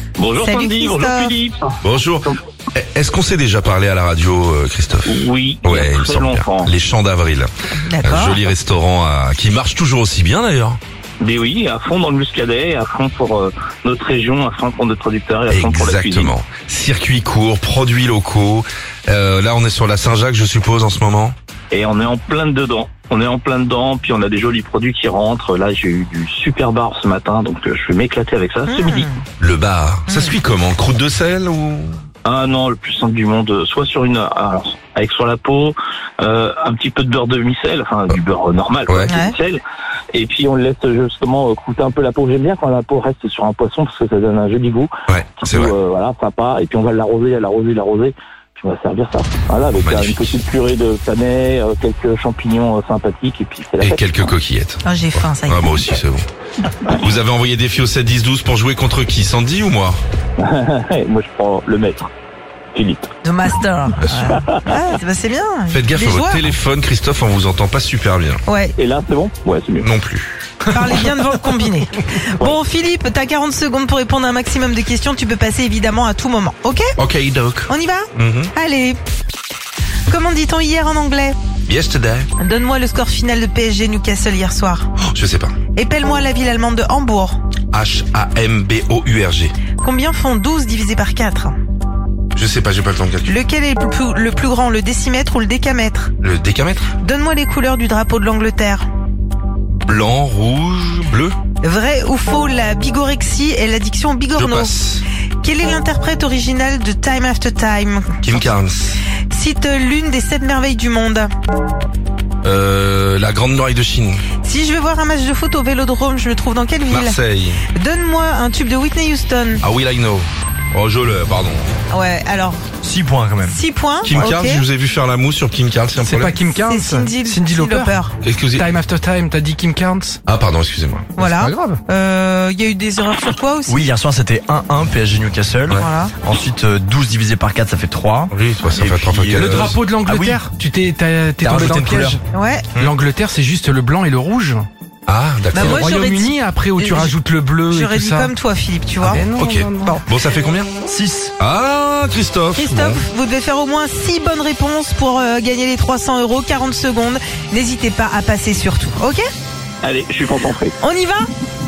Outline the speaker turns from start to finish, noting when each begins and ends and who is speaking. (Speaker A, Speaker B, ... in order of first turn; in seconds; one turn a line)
Speaker A: 0.2-2.3
Speaker B: 0.4-1.3
Speaker C: 1.8-7.5
Speaker A: 5.0-6.7
Speaker B: 7.8-8.4
Speaker C: 8.0-10.8
Speaker A: 11.2-16.3
Speaker C: 15.5-21.3
Speaker A: 21.7-29.1
Speaker B: 28.7-29.2
Speaker C: 29.4-32.0
Speaker B: 30.1-30.4
Speaker A: 32.2-39.6
Speaker C: 38.9-39.1
Speaker B: 39.1-39.3
Speaker A: 40.1-54.2
Speaker C: 45.1-45.7
Speaker C: 49.7-50.4
Speaker C: 53.8-56.2
Speaker B: 54.8-55.9
Speaker C: 56.9-60.0
Speaker A: 60.4-62.1
Speaker A: 62.7-63.1
Speaker B: 63.2-66.5
Speaker C: 64.0-64.3
Speaker C: 65.7-68.4
Speaker B: 68.5-68.8
Speaker A: 68.8-69.9
Speaker C: 69.8-70.3
Speaker B: 70.7-76.9
Speaker D: 70.7-71.3
Speaker C: 77.0-78.5
Speaker B: 77.7-79.0
Speaker B: 80.1-81.3
Speaker C: 81.7-82.3
Speaker B: 82.4-84.9
Speaker C: 85.1-85.5
Speaker B: 85.7-87.3
Speaker C: 87.7-89.5
Speaker B: 89.8-91.5
Speaker C: 92.3-93.4
Speaker B: 93.2-96.1
Speaker C: 96.2-96.9
Speaker B: 97.0-98.8
Speaker C: 99.8-101.3
Speaker B: 101.6-104.8
Speaker C: 104.3-105.0
Speaker B: 105.4-108.5
Speaker C: 108.2-109.0
Speaker B: 109.3-111.3
Speaker C: 112.4-114.2
Speaker B: 114.4-117.2
Speaker C: 116.9-117.6
Speaker B: 117.7-119.6
Speaker C: 119.6-121.7
Speaker B: 121.9-122.6
Speaker E: 122.8-123.6
Speaker B: 123.4-124.6
Speaker C: 124.0-126.4
Speaker D: 126.0-130.2
Speaker B: 126.6-128.1
Speaker C: 128.2-128.7
Speaker C: 130.3-131.1
Speaker B: 131.2-133.8
Speaker D: 131.2-131.8
Speaker E: 133.7-140.5
Speaker B: 135.8-136.1
Speaker C: 138.3-139.7
Speaker D: 139.3-142.2
Speaker E: 141.4-142.2
Speaker B: 142.3-142.7
Speaker D: 142.7-144.7
Speaker C: 145.1-145.8
Speaker B: 145.5-147.1
Speaker D: 145.6-148.3
Speaker B: 147.7-149.3
Speaker D: 149.0-150.1
Speaker C: 149.3-150.7
Speaker E: 150.8-151.3
Speaker C: 151.4-153.0
Speaker B: 152.5-159.2
Speaker A: 159.8-160.8
Speaker B: 160.8-161.2